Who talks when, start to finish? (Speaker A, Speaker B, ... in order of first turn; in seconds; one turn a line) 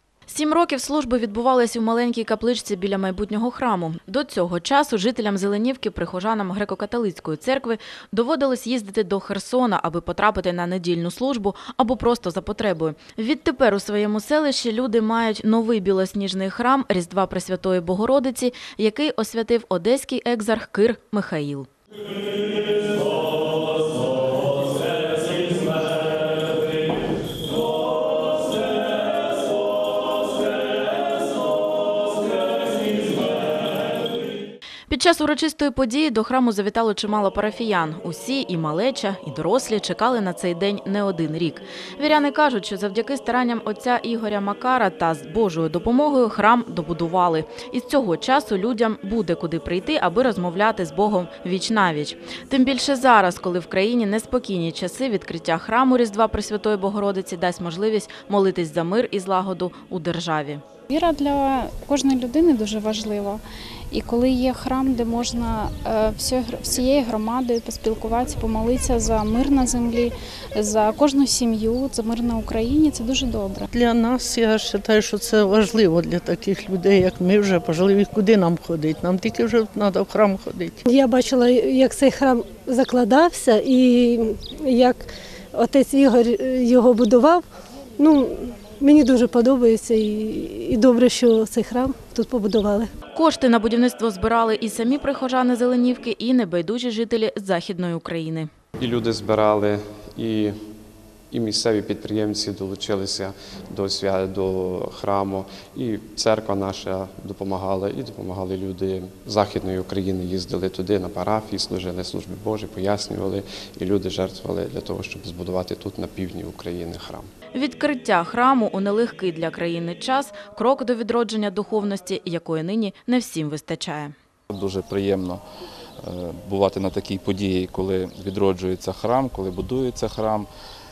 Speaker A: 0.3-21.7
Speaker A: 34.9-60.6
Speaker B: 60.9-73.7
Speaker C: 73.7-80.8
Speaker D: 80.8-85.0
Speaker D: 85.6-87.4
Speaker D: 88.0-92.9
Speaker A: 93.1-98.5
Speaker E: 98.8-100.5
Speaker E: 101.3-117.3
Speaker A: 117.5-124.1
Speaker F: 124.5-125.4
Speaker F: 126.0-130.5